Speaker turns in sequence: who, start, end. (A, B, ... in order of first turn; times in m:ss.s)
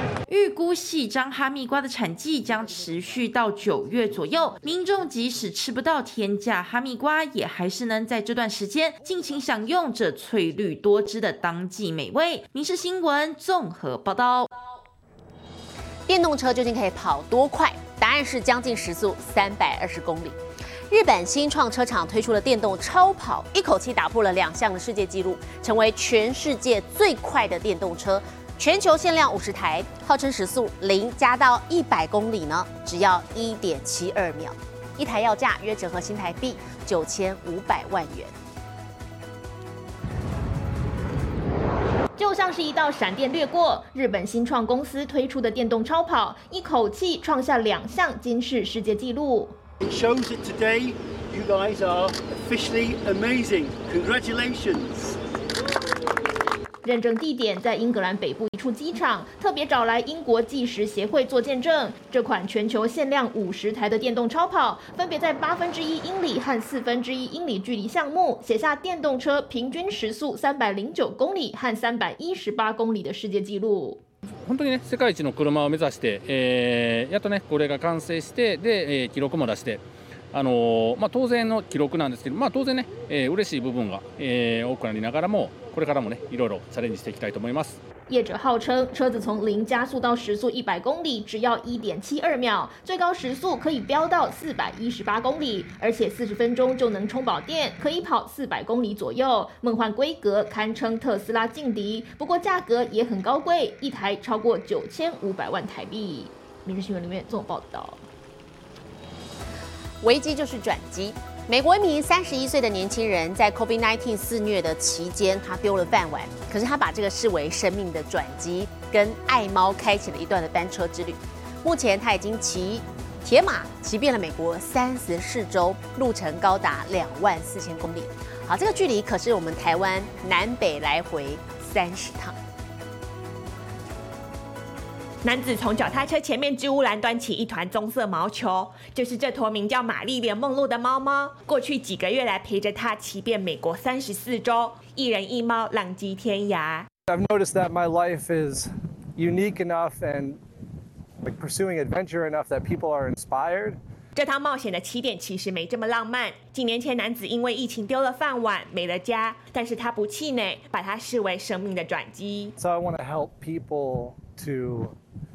0:00.3-0:14.5 A
0:16.1-0:20.4 B
0:20.9-0:38.3 B
0:42.2-0:49.6 C
0:49.9-0:54.9 D
0:56.8-1:14.0 C
1:14.4-1:19.8 E
1:20.3-1:27.8 E
1:28.1-1:48.0 C
1:50.0-2:12.4 B
2:15.2-2:26.9 F
2:27.1-2:30.4 G
2:31.2-2:33.8 G
2:34.2-2:42.6 F
2:42.6-2:45.0 G